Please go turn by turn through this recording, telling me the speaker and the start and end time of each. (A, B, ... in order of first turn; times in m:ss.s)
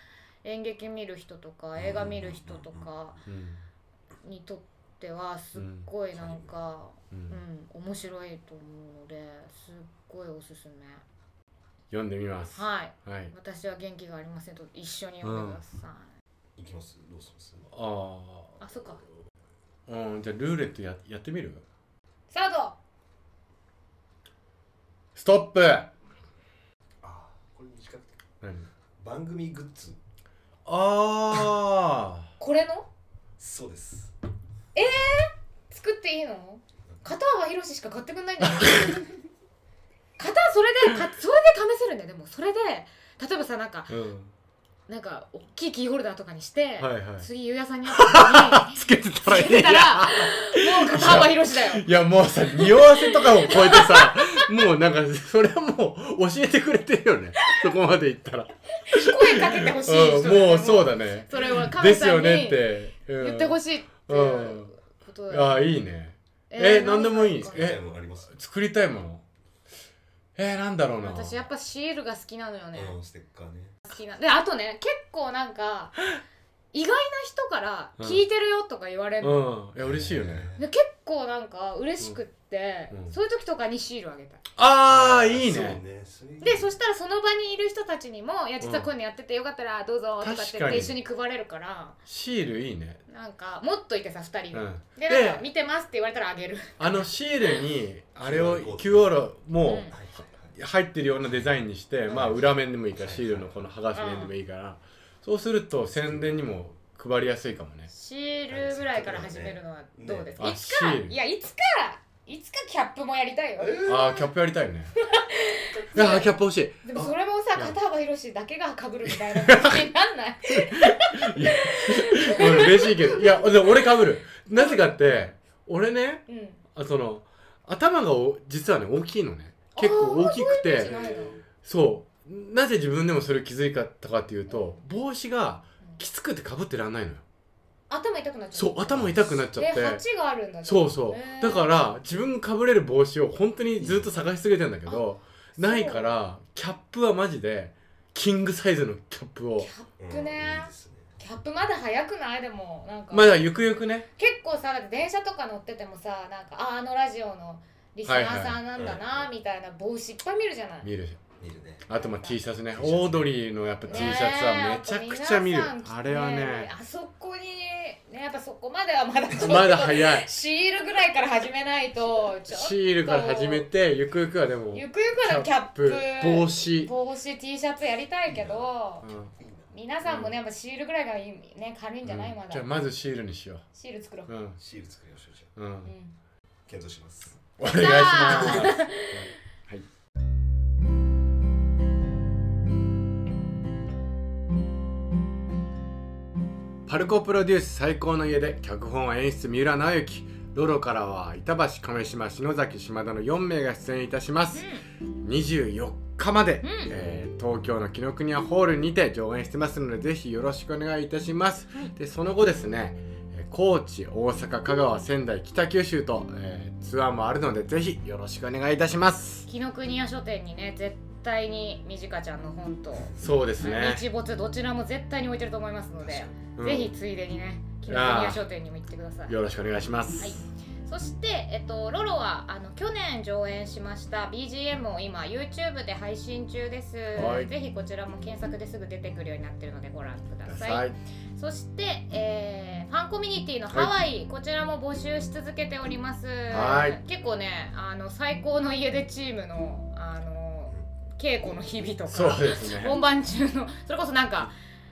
0:00.4-0:03.2 A
0:01.8-0:02.9 B
0:03.3-0:03.6 C
0:04.2-0:11.0 A
0:05.6-0:05.9 C
0:06.1-0:06.6 B
0:07.1-0:07.4 C
0:11.9-0:13.3 C
0:12.6-0:16.1 A
0:15.2-0:15.6 C
0:16.6-0:17.7 B
0:17.7-0:18.6 C
0:18.6-0:19.0 A
0:19.9-0:21.7 C
0:22.3-0:22.8 A
0:25.2-0:25.9 C
0:27.0-0:28.2 B
0:28.4-0:28.7 C
0:29.0-0:30.0 B
0:30.7-0:32.3 C
0:32.4-0:32.9 A
0:33.4-0:34.1 B
0:34.8-0:39.1 A
0:38.4-0:39.0 C
0:40.2-0:44.0 A
0:43.9-0:44.3 C
0:44.9-0:51.9 A
0:46.8-0:47.3 C
0:47.9-1:04.7 C
0:52.6-0:54.5 A
0:58.8-1:05.7 A
1:05.3-1:09.2 C
1:06.5-1:07.8 A
1:07.5-1:08.4 B
1:10.4-1:11.4 C
1:11.0-1:13.0 A
1:12.7-1:13.8 B
1:13.9-1:16.0 A
1:16.7-1:19.4 A
1:19.2-1:20.5 C
1:19.8-1:20.6 B
1:20.6-1:24.4 A
1:24.6-1:25.8 C
1:24.9-1:26.7 B
1:26.4-1:32.0 A
1:28.6-1:28.9 C
1:30.2-1:31.0 C
1:32.1-1:33.0 C
1:33.1-1:36.9 A
1:34.5-1:35.4 C
1:36.8-1:47.9 C
1:38.2-1:39.2 B
1:39.6-1:40.0 A
1:39.9-1:40.6 B
1:42.1-1:43.6 B
1:43.9-1:44.3 A
1:46.1-1:46.4 B
1:47.9-1:53.9 A
1:48.5-1:50.3 B
1:50.4-1:51.2 C
1:53.6-1:54.3 B
1:53.8-1:54.9 C
1:55.0-1:56.3 A
1:55.9-1:56.9 C
1:56.8-2:03.7 A
1:59.1-1:59.9 C
2:00.5-2:06.2 C
2:04.6-2:05.3 A
2:06.3-2:06.6 A
2:06.7-2:17.2 C
2:09.8-2:11.4 A
2:10.9-2:11.2 B
2:14.5-2:14.8 A
2:17.9-2:21.8 A
2:18.6-2:20.0 C
2:20.6-2:29.7 C
2:23.8-2:24.1 B
2:25.6-2:26.2 A
2:29.6-2:33.5 A
2:30.0-2:31.2 B
2:33.1-2:34.1 C
2:34.2-2:40.9 A
2:38.0-2:38.6 C
2:38.8-2:39.2 B
2:40.8-2:41.2 C
2:41.4-2:41.9 B
2:41.9-2:46.7 C
2:41.9-2:42.4 A
2:42.7-2:44.2 B
2:43.9-2:53.7 A
2:49.3-2:50.3 C
2:52.5-2:56.9 C
2:54.7-2:59.1 A
2:58.3-2:58.7 B
2:59.0-2:59.3 C
2:59.4-2:59.7 B
2:59.7-3:02.7 A
3:00.1-3:00.3 C
3:02.0-3:03.6 C
3:03.7-3:04.3 A
3:04.3-3:04.6 C
3:04.6-3:05.5 B
3:05.6-3:05.9 C
3:05.8-3:06.1 A
3:06.7-3:07.4 B
3:07.6-3:09.9 C
3:07.6-3:09.3 A
3:16.9-3:24.7 C
3:24.5-3:24.8 A
3:25.2-3:39.5 C
3:26.6-3:26.9 A
3:39.5-3:49.4 A
3:43.2-3:44.0 C
3:46.0-3:46.3 B
3:46.6-3:46.9 C
3:47.9-3:48.4 C
3:49.3-3:50.4 C
3:50.2-4:14.5 A
3:57.2-3:57.5 C
4:00.5-4:01.0 C
4:03.7-4:04.0 C
4:06.5-4:07.0 C
4:12.1-4:13.0 C